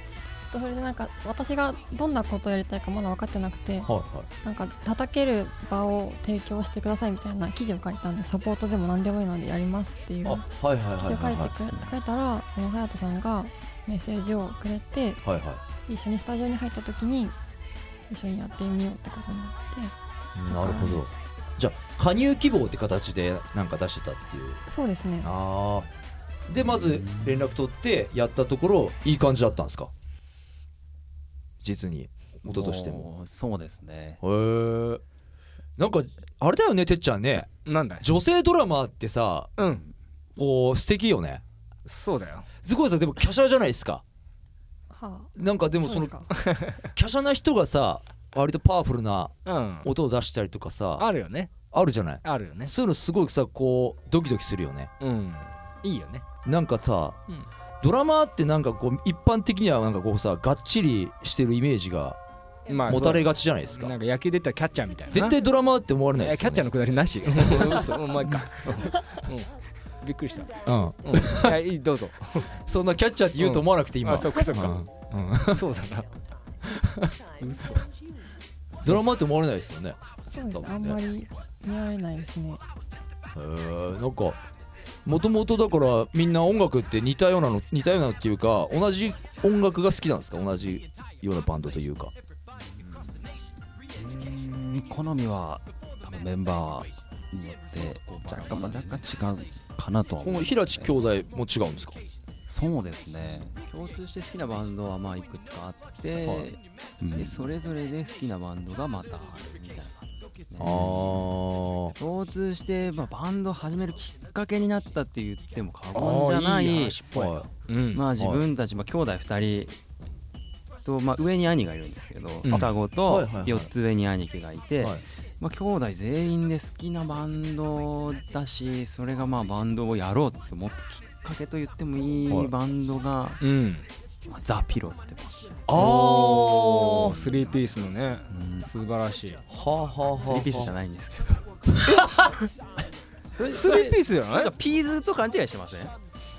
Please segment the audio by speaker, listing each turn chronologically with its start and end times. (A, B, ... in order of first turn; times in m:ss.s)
0:00.5-0:03.9 A
0:03.9-0:04.3 B
0:04.4-0:15.2 A
0:10.2-0:11.5 B
0:15.2-0:15.6 B
0:15.9-0:17.4 A
0:18.1-0:19.9 A
0:20.4-0:24.6 B
0:20.5-0:21.0 A
0:24.7-0:25.3 A
0:25.2-0:25.9 B
0:26.5-0:29.9 B
0:26.6-0:27.5 C
0:31.6-0:33.1 B
0:32.5-0:34.2 C
0:34.2-0:35.0 B
0:35.8-0:39.5 B
0:37.7-0:38.1 D
0:39.6-0:39.8 D
0:40.4-0:41.4 B
0:41.9-0:42.5 D
0:42.6-0:44.0 B
0:44.9-0:46.3 A
0:45.4-0:51.1 B
0:46.3-0:46.8 D
0:49.4-0:49.9 D
0:51.0-0:51.5 D
0:51.7-0:54.9 B
0:52.2-0:52.7 D
0:55.0-0:56.2 D
0:56.4-0:57.2 B
0:57.8-1:02.2 B
1:02.7-1:05.4 D
1:02.9-1:03.9 B
1:05.1-1:06.7 B
1:06.2-1:12.6 D
1:07.4-1:07.9 B
1:08.9-1:09.2 A
1:10.7-1:11.6 B
1:12.6-1:15.6 B
1:13.4-1:14.9 D
1:15.4-1:16.1 D
1:16.7-1:17.1 B
1:17.4-1:17.9 D
1:18.8-1:20.0 B
1:20.3-1:22.6 A
1:20.5-1:21.0 B
1:23.4-1:24.4 B
1:25.0-1:32.1 B
1:33.9-1:41.0 C
1:38.1-1:39.0 E
1:40.2-1:42.0 B
1:42.5-1:43.5 C
1:43.5-1:46.6 E
1:47.0-1:47.5 C
1:47.2-1:51.2 E
1:50.6-1:51.3 C
1:50.6-1:52.0 B
1:51.9-1:57.0 E
1:55.9-1:58.0 D
1:57.1-1:57.5 B
1:57.9-1:59.8 E
1:58.2-1:58.4 B
2:00.8-2:13.4 E
2:02.4-2:02.7 D
2:02.5-2:03.7 B
2:13.4-2:13.9 D
2:14.3-2:16.0 E
2:15.7-2:17.2 B
2:15.8-2:19.4 D
2:18.3-2:18.7 E
2:19.5-2:20.7 B
2:20.2-2:22.1 E
2:22.0-2:22.4 D
2:23.3-2:26.0 E
2:23.5-2:24.5 D